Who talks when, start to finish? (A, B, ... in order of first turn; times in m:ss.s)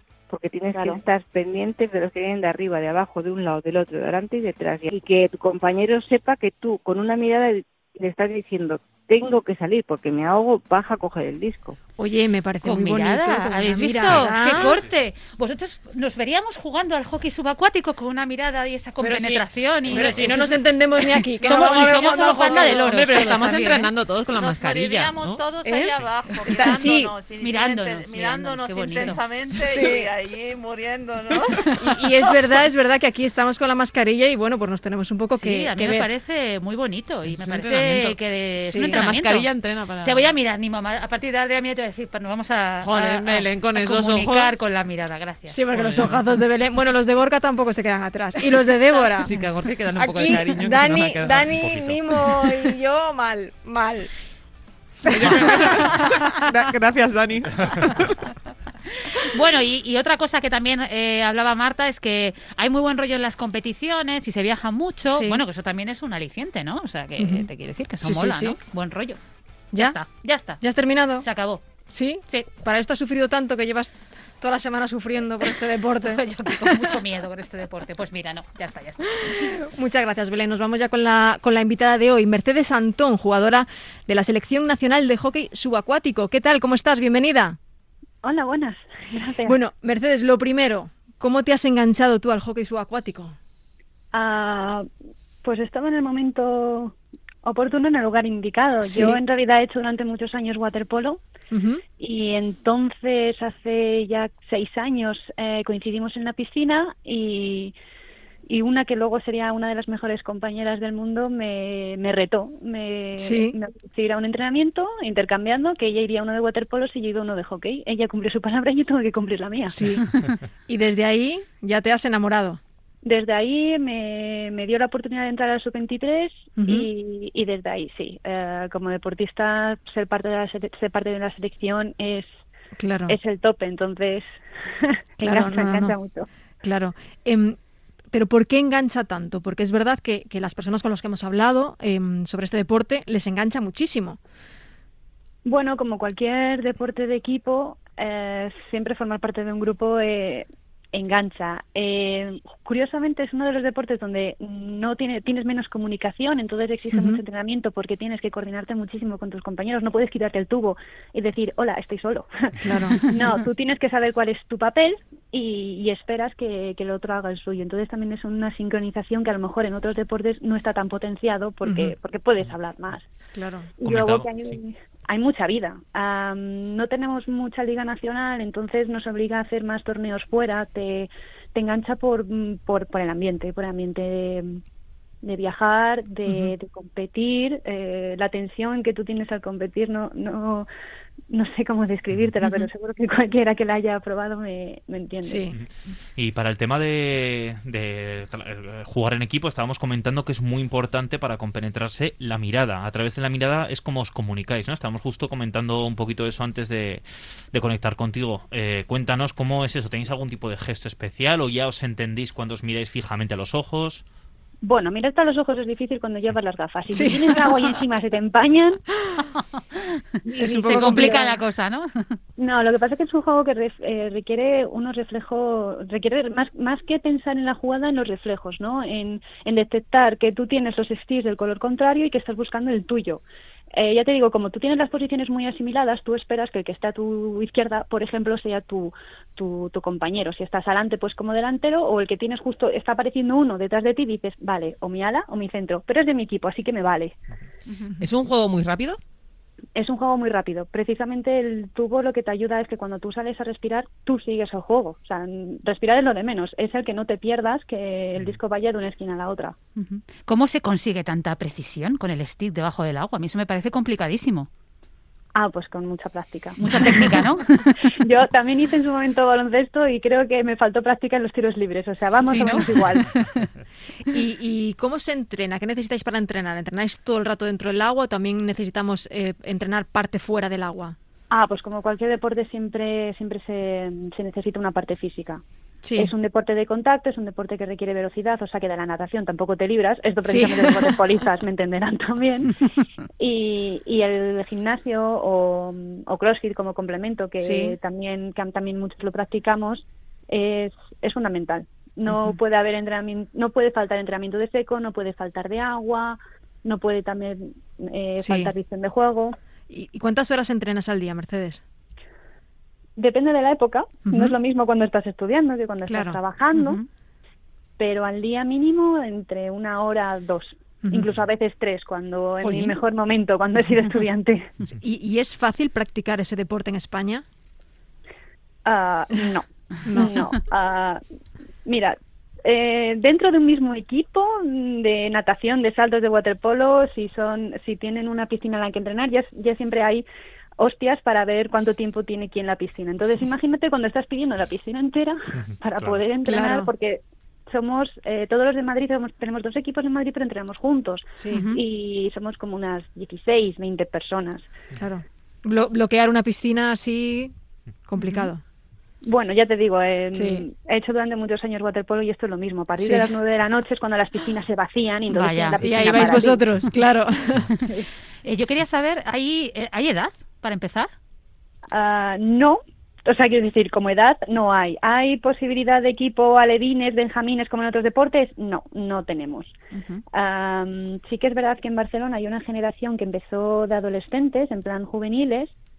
0:00.3-0:11.8 A
0:12.0-0:14.8 B
0:12.6-0:20.5 C
0:14.1-0:14.9 D
0:19.0-0:23.1 B
0:19.9-0:20.2 D
0:21.4-0:23.9 C
0:21.5-0:25.4 E
0:24.3-0:31.9 F
0:25.6-0:27.1 B
0:27.4-0:29.2 C
0:29.6-0:30.1 B
0:31.7-0:36.1 B
0:35.4-0:39.5 C
0:37.3-0:38.2 E
0:38.6-0:39.0 B
0:38.9-0:40.3 E
0:40.0-0:45.7 C
0:42.8-0:44.5 E
0:45.5-0:49.4 B
0:45.7-0:46.2 E
0:49.2-0:51.5 E
0:49.9-0:54.1 B
0:51.4-0:52.0 D
0:55.0-0:56.0 B
0:55.0-0:58.2 E
0:59.0-1:09.2 C
1:05.1-1:05.4 B
1:07.2-1:07.5 B
1:08.0-1:08.6 B
1:09.7-1:10.0 B
1:09.8-1:10.6 C
1:10.6-1:11.2 B
1:11.2-1:11.6 C
1:11.9-1:17.0 B
1:16.0-1:19.5 C
1:19.1-1:27.6 B
1:28.2-1:29.6 G
1:29.4-1:33.4 B
1:34.1-1:34.9 G
1:35.4-1:41.2 G
1:38.8-1:39.2 B
1:41.5-1:41.8 B
1:42.0-1:47.7 G
1:48.5-1:59.8 G
1:53.2-1:53.6 B
1:59.7-2:00.0 B
2:00.7-2:02.6 B
2:03.0-2:12.3 G
2:06.6-2:06.9 B
2:12.8-2:13.2 B
2:13.1-2:14.2 G
2:14.8-2:16.3 G
2:15.2-2:15.9 B
2:16.6-2:17.6 B
2:18.1-2:24.2 B
2:25.4-2:53.0 G
2:36.9-2:37.2 B
2:42.6-2:43.1 B
2:51.6-2:51.9 B
2:53.3-2:53.7 B
2:53.8-3:04.6 G
2:53.8-2:54.3 D
3:05.2-3:10.7 G
3:06.3-3:06.5 B
3:11.3-3:15.5 G
3:15.2-3:15.6 B
3:15.5-3:34.0 D
3:34.6-3:38.8 G
3:36.9-3:37.7 B
3:40.3-3:41.4 G
3:40.4-3:41.2 B
3:40.6-3:42.2 C
3:42.4-3:53.2 G
3:53.7-4:07.1 G
4:08.0-4:09.0 E
4:09.7-4:19.6 G
4:19.8-4:24.5 C
4:25.3-4:27.2 G
4:26.6-4:27.7 C
4:27.8-4:33.1 G
4:32.3-4:33.5 C
4:34.1-4:41.0 B
4:41.3-4:45.4 G
4:45.8-4:46.1 B
4:46.0-4:52.6 G
4:50.2-4:51.0 B
4:53.2-5:09.4 G
4:57.4-4:57.8 B
5:02.1-5:02.4 B
5:08.2-5:08.5 B
5:09.7-5:11.6 B
5:13.0-5:16.8 G
5:14.1-5:14.3 B
5:15.9-5:16.2 B
5:16.5-5:16.8 C
5:17.8-5:24.5 G
5:20.8-5:21.1 B
5:22.4-5:22.7 B
5:24.8-5:27.2 B
5:28.6-5:31.0 G
5:29.8-5:30.2 B
5:31.6-5:40.0 G
5:40.6-5:54.5 G
5:45.5-5:46.0 D
5:46.2-5:46.7 B
5:51.2-5:51.5 B
5:51.3-5:51.6 C
5:54.8-5:57.3 B
5:57.9-5:58.4 B
5:59.0-6:06.4 G
6:00.1-6:00.4 B
6:02.8-6:03.1 B
6:05.1-6:06.2 C
6:05.6-6:07.5 B
6:08.2-6:10.9 C
6:11.7-6:19.5 G
6:19.7-6:20.0 C
6:20.1-6:25.5 G